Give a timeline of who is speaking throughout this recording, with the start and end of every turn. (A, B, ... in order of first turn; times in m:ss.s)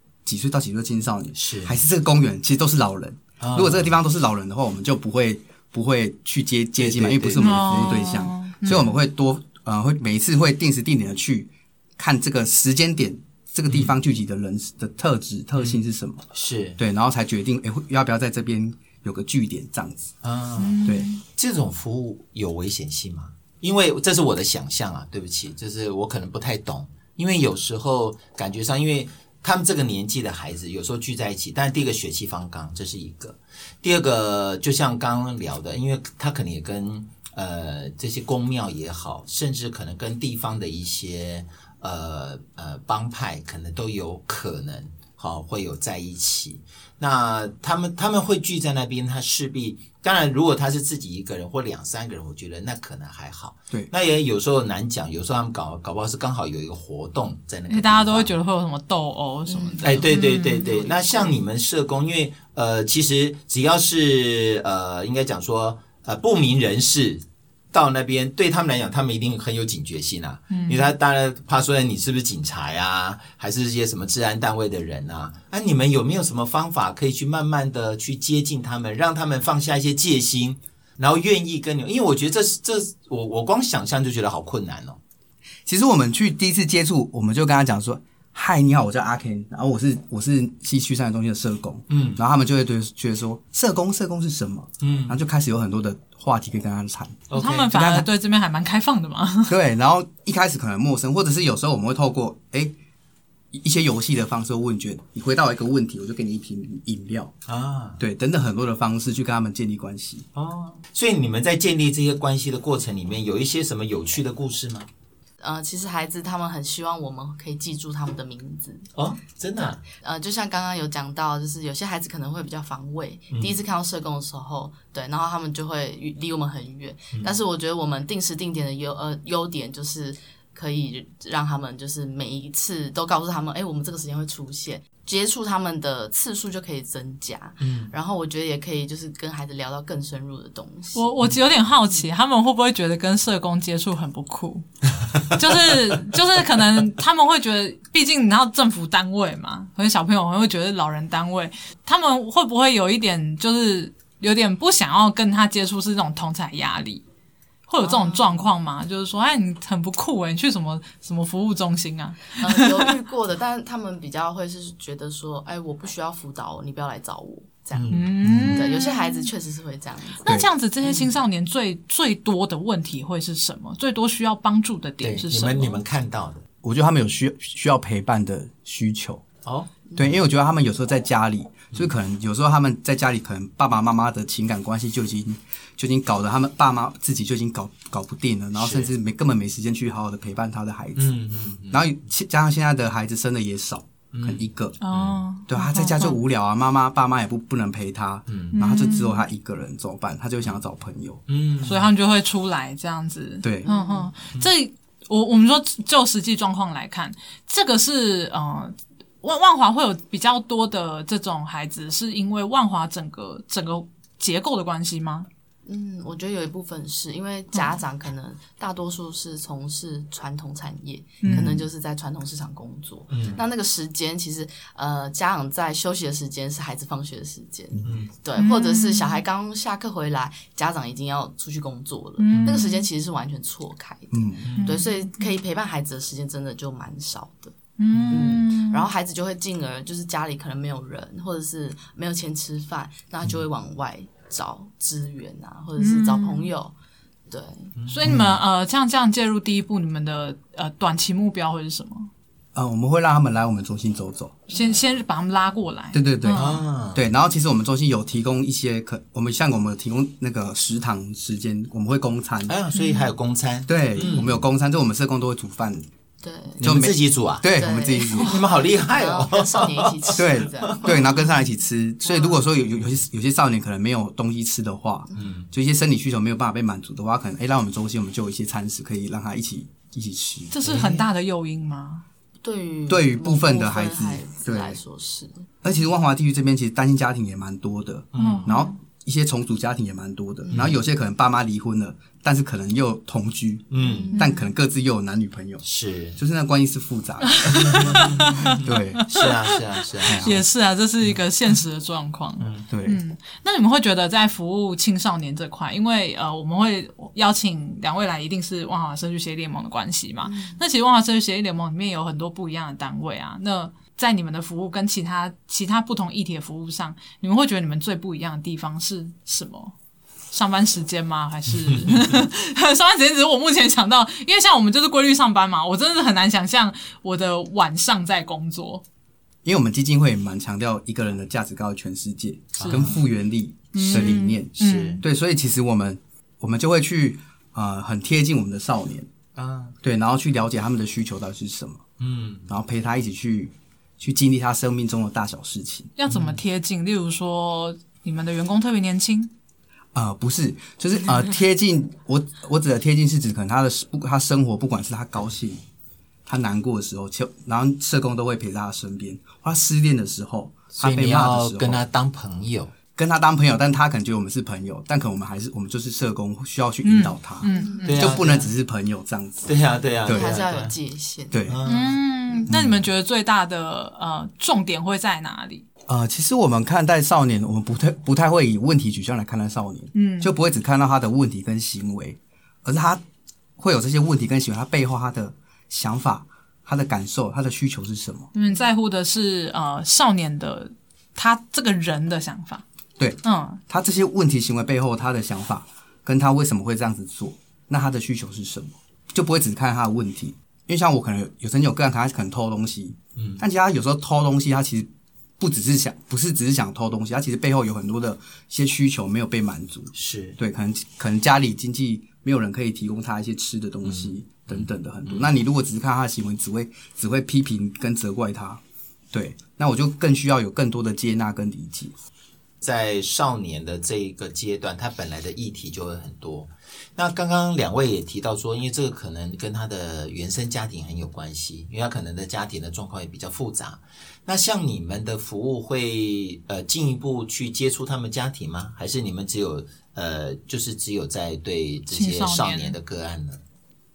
0:00.2-0:16.2 A
0:01.3-0:01.8 B
0:03.4-0:03.9 B
0:06.8-0:07.7 B
0:07.4-0:08.9 C
0:16.3-0:16.8 B
0:16.8-0:20.1 A
0:20.2-0:58.3 B
0:20.6-0:21.2 C
0:57.7-1:00.9 C
0:59.4-1:00.0 D
0:59.8-1:25.0 B
1:10.5-1:10.9 C
1:25.6-1:38.1 A
1:31.9-1:32.2 B
1:34.8-1:35.2 B
1:37.3-1:37.7 B
1:37.3-1:39.6 C
1:39.5-1:42.7 A
1:43.5-1:47.3 A
1:47.5-1:48.0 B
1:48.0-1:50.2 A
1:50.3-1:54.9 B
1:55.4-1:58.9 D
1:58.9-1:59.8 B
1:59.6-2:21.1 D
2:03.3-2:03.6 B
2:17.6-2:17.9 B
2:20.9-2:24.7 C
2:25.2-2:37.0 C
2:37.7-2:42.9 C
2:37.8-2:38.4 D
2:42.4-2:48.0 D
2:47.7-2:48.5 B
2:47.9-2:49.3 C
2:48.2-2:48.6 A
2:48.5-2:50.2 D
2:50.2-2:55.8 C
2:55.0-2:56.4 B
2:56.6-2:59.2 A
2:59.4-2:59.7 B
3:00.0-3:11.1 A
3:08.5-3:08.9 B
3:11.0-3:11.8 B
3:11.7-3:14.8 A
3:14.1-3:15.2 B
3:14.8-3:16.2 C
3:15.5-3:21.2 A
3:18.3-3:18.6 B
3:18.5-3:19.2 C
3:21.3-3:21.9 B
3:21.6-3:35.3 C
3:23.4-3:23.7 A
3:23.6-3:24.1 D
3:35.6-3:57.5 D
3:37.5-3:37.8 C
3:41.2-3:41.6 C
3:41.2-3:41.6 A
3:43.1-3:43.4 B
3:47.8-3:48.1 B
3:48.4-3:49.2 C
3:52.2-3:52.9 C
3:52.3-3:52.6 B
3:54.1-3:54.5 A
3:54.4-3:54.8 B
3:54.5-3:55.3 C
3:57.8-3:58.9 C
3:57.9-3:58.4 B
3:58.1-4:06.7 D
4:05.8-4:06.5 C
4:07.3-4:07.7 D
4:07.8-4:08.3 B
4:07.9-4:12.1 C
4:08.0-4:08.3 A
4:12.5-4:14.4 A
4:14.5-4:16.6 C
4:15.9-4:22.6 A
4:16.3-4:17.0 B
4:22.5-4:24.4 B
4:22.7-4:23.1 C
4:23.7-4:25.8 A
4:26.2-4:26.6 D
4:26.6-4:27.4 B
4:26.6-4:28.3 A
4:27.5-4:31.2 D
4:28.2-4:30.8 B
4:30.1-4:40.5 A
4:32.0-4:32.4 D
4:35.1-4:35.5 B
4:40.5-4:42.0 C
4:40.6-4:41.0 B
4:42.4-4:45.4 D
4:42.9-4:44.8 A
4:45.6-4:55.6 A
4:48.1-4:48.5 B
4:48.2-4:48.7 C
4:50.4-4:50.7 D
4:50.5-4:50.8 B
4:53.7-4:54.1 B
4:53.8-4:54.4 D
4:54.1-4:54.5 C
4:55.6-4:56.2 B
4:56.2-4:58.1 A
4:57.2-4:59.3 C
4:57.5-5:00.4 B
4:58.6-4:59.0 A
5:00.0-5:19.7 C
5:00.0-5:00.4 A
5:02.4-5:02.6 B
5:02.7-5:03.0 A
5:10.2-5:10.6 D
5:20.3-5:28.8 C
5:29.4-5:39.1 A
5:32.6-5:33.0 B
5:32.6-5:33.0 C
5:33.7-5:35.0 C
5:33.9-5:35.0 B
5:39.4-5:39.7 B
5:39.8-5:41.8 A
5:42.0-5:42.5 B
5:42.5-5:45.9 A
5:46.0-5:49.3 C
5:46.1-5:46.4 B
5:49.9-5:55.6 A
5:56.2-6:01.8 A
6:00.7-6:02.7 B
6:03.0-6:09.4 A
6:06.8-6:08.0 C
6:07.4-6:08.1 D
6:07.8-6:08.5 B
6:09.4-6:10.7 B
6:10.0-6:10.4 A
6:10.1-6:11.7 D
6:11.3-6:11.6 A
6:11.4-6:12.0 B
6:11.6-6:15.6 C
6:12.5-6:12.8 A
6:15.9-6:23.0 A
6:19.9-6:20.3 C
6:23.6-6:28.3 A
6:28.3-6:32.6 C
6:33.0-6:58.6 A
6:33.2-6:33.6 C
6:43.2-6:43.4 B
6:49.9-6:50.4 B
6:53.8-6:55.3 B
6:59.1-7:01.9 A
7:02.6-7:23.4 B
7:21.9-7:22.7 C